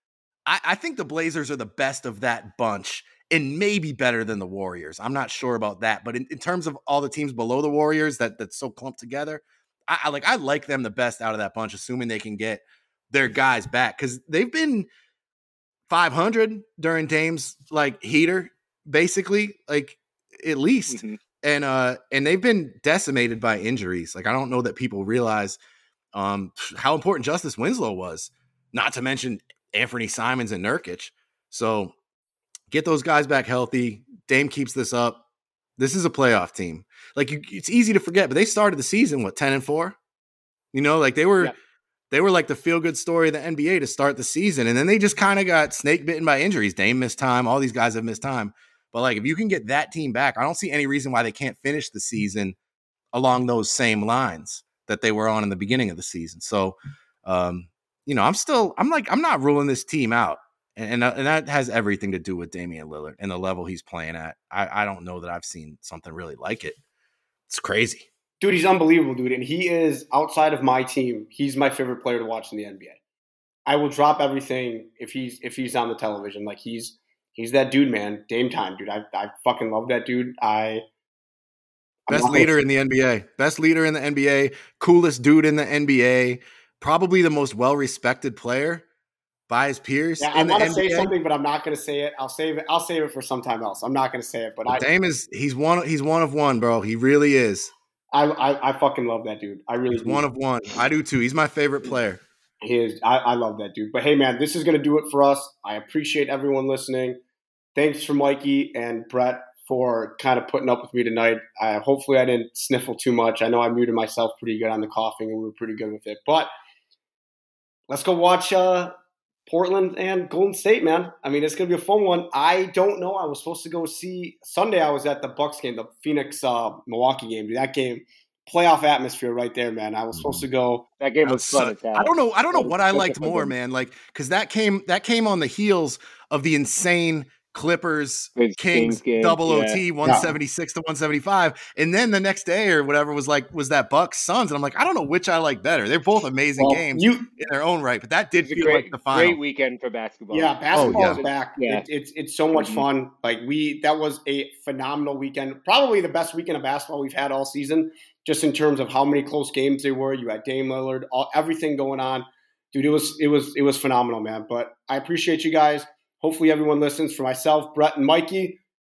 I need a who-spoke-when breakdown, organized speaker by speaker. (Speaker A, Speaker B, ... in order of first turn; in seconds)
Speaker A: 0.5-14.9, 15.9-25.6, 26.1-31.9, 32.7-35.2, 35.8-40.0, 40.7-41.5, 42.1-52.6, 53.1-66.8, 67.5-68.1, 82.1-88.8, 89.5-91.1, 94.7-97.7, 99.9-102.2, 130.1-130.4, 131.2-149.4, 150.7-151.2
Speaker B: 20.9-21.2, 131.0-133.5, 138.4-139.8, 148.4-151.8, 152.5-152.8
Speaker C: 68.4-73.0, 73.7-80.8, 82.1-82.5, 90.2-94.8, 98.1-100.2, 102.6-107.2, 107.8-116.5, 117.9-119.0, 119.5-130.9, 146.6-147.3, 150.3-168.6